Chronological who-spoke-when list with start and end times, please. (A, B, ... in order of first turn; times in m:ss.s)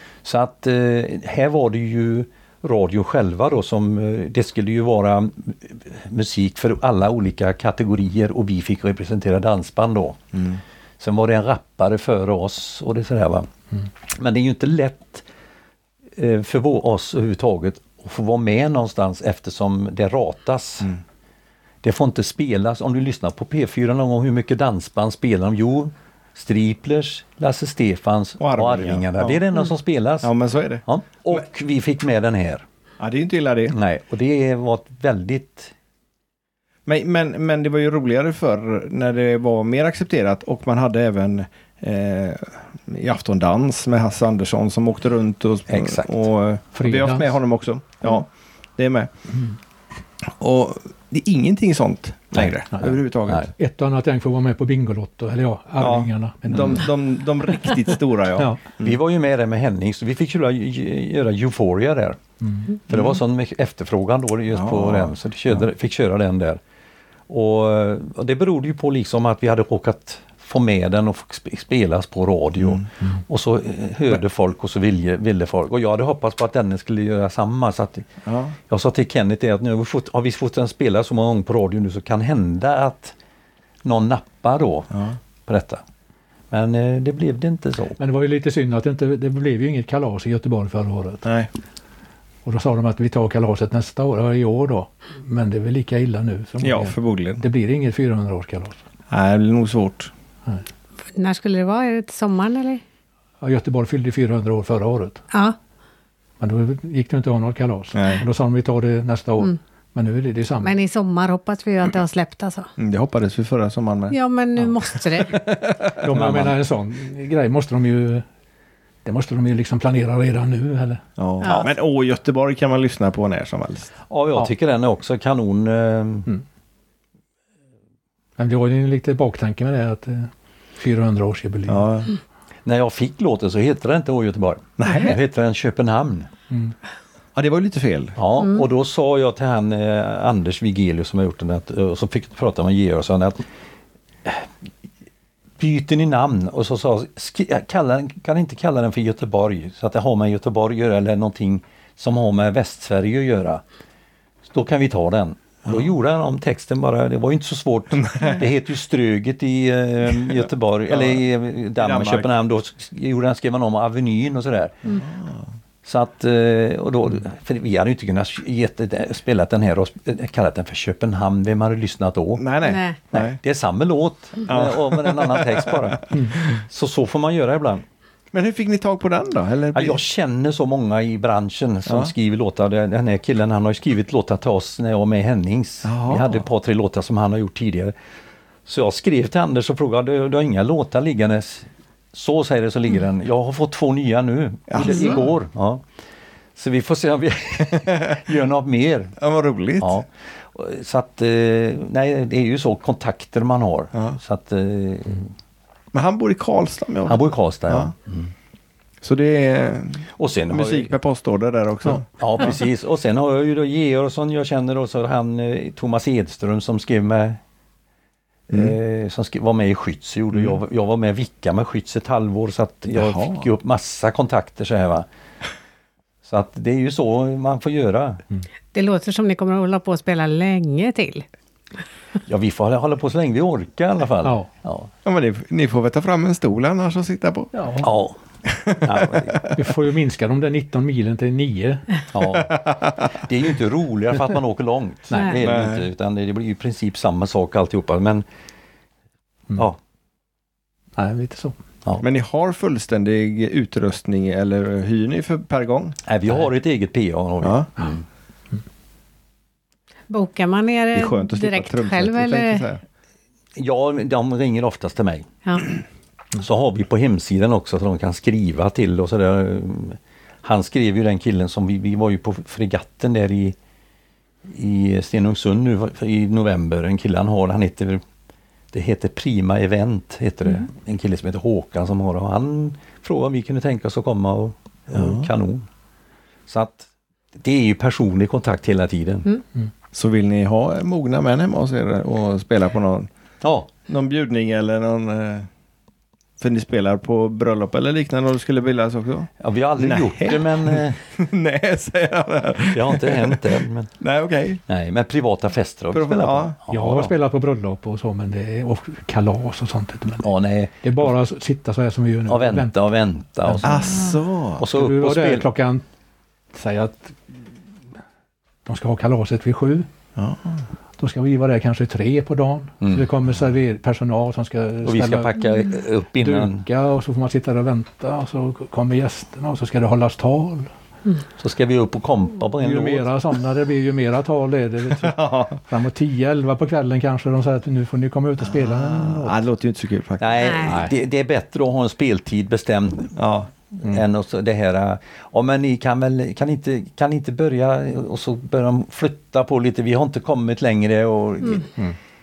0:00.2-0:10.2 A
0:10.3-0:10.6 B
0:11.0-0:13.5 A
0:14.1-0:15.2 A
0:16.2-0:20.9 A
0:21.8-0:30.3 A
0:28.4-0:29.4 B
0:30.2-0:30.8 B
0:30.9-0:32.6 A
0:33.0-0:33.7 B
0:33.7-0:35.7 A
0:36.9-0:49.1 B
0:45.7-0:46.2 A
0:46.7-0:47.4 C
0:50.3-0:53.5 B
0:53.5-0:56.9 C
0:55.8-0:59.0 B
0:58.8-1:02.2 A
1:02.4-1:02.7 C
1:02.9-1:06.6 A
1:02.9-1:03.2 B
1:04.5-1:05.1 B
1:07.3-1:18.1 A
1:18.2-1:18.6 B
1:18.7-1:23.1 A
1:23.8-1:24.9 A
1:24.9-1:25.2 B
1:25.4-1:25.8 A
1:26.5-1:28.0 A
1:28.0-1:31.2 C
1:31.2-1:31.5 B
1:32.4-1:38.8 C
1:36.6-1:37.4 B
1:39.1-1:40.1 B
1:41.1-1:42.8 D
1:43.4-1:45.2 C
1:45.3-1:45.6 D
1:46.4-1:50.8 C
1:47.9-1:48.2 B
1:50.6-1:52.7 D
1:52.8-1:54.2 B
1:54.1-1:55.4 D
1:55.2-1:56.0 B
1:56.0-1:58.3 C
1:56.1-1:56.6 A
1:59.0-2:01.0 C
2:01.2-2:03.9 B
2:01.4-2:01.7 D
2:04.1-2:06.3 A
2:08.4-2:11.9 C
2:11.7-2:12.1 B
2:12.6-2:16.3 A
2:14.8-2:15.2 B
2:17.3-2:18.2 B
2:18.2-2:23.4 A
2:25.6-2:33.6 A
2:34.4-2:44.8 A
2:40.9-2:41.2 B
2:41.8-2:42.3 B
2:44.9-2:45.5 B
2:45.8-2:52.4 A
2:52.4-2:53.4 B
2:52.6-2:53.0 D
2:53.1-2:57.8 A
2:54.4-2:56.4 B
2:58.3-3:00.0 B
2:59.7-3:07.9 A
3:01.9-3:02.1 B
3:05.8-3:06.4 B
3:08.6-3:15.8 A
3:14.7-3:15.3 B
3:16.6-3:19.1 A
3:19.2-3:20.0 B
3:19.8-3:25.3 A
3:25.9-3:27.9 B
3:27.0-3:28.3 A
3:29.0-3:32.1 B
3:30.2-3:30.9 A
3:32.1-3:37.4 A
3:38.5-3:45.0 A
3:43.0-3:43.4 B
3:46.2-3:48.2 A
3:48.7-3:51.2 D
3:52.3-3:54.9 A
3:55.0-3:57.5 B
3:57.5-3:57.9 C
3:57.8-3:59.5 A
3:58.4-3:59.5 B
3:59.5-4:02.1 C
4:02.1-4:08.2 A
4:02.5-4:03.0 B
4:05.1-4:05.4 C
4:05.4-4:05.8 B
4:11.0-4:11.6 C
4:12.0-4:16.0 B
4:16.0-4:18.0 A
4:17.4-4:17.7 B
4:20.1-4:22.6 D
4:20.9-4:22.8 B
4:23.6-4:25.3 A
4:26.3-4:33.6 A
4:34.5-4:38.0 A
4:38.7-4:45.6 A
4:44.9-4:45.3 B
4:46.5-4:49.3 A
4:49.9-4:53.1 B
4:53.4-4:53.7 A
4:53.9-4:55.5 B
4:56.4-5:04.6 B
4:59.4-5:01.0 A
5:02.7-5:03.9 A
5:04.7-5:07.1 A
5:05.9-5:06.6 B
5:06.7-5:10.3 C
5:10.2-5:11.1 A
5:10.8-5:12.7 C
5:12.3-5:13.9 A
5:13.4-5:14.0 C
5:13.6-5:14.6 B
5:14.6-5:15.5 A
5:14.7-5:15.8 C
5:16.5-5:17.4 C
5:18.6-5:19.9 C
5:20.2-5:20.6 B
5:21.0-5:25.3 C
5:22.8-5:23.1 A
5:24.8-5:26.6 A
5:26.2-5:30.7 C
5:31.4-5:33.1 A
5:32.6-5:39.4 C
5:34.9-5:35.6 B
5:38.4-5:40.8 B
5:40.2-5:43.2 A
5:40.4-5:40.7 D
5:40.7-5:40.9 C
5:43.2-5:43.5 B
5:43.7-5:51.7 A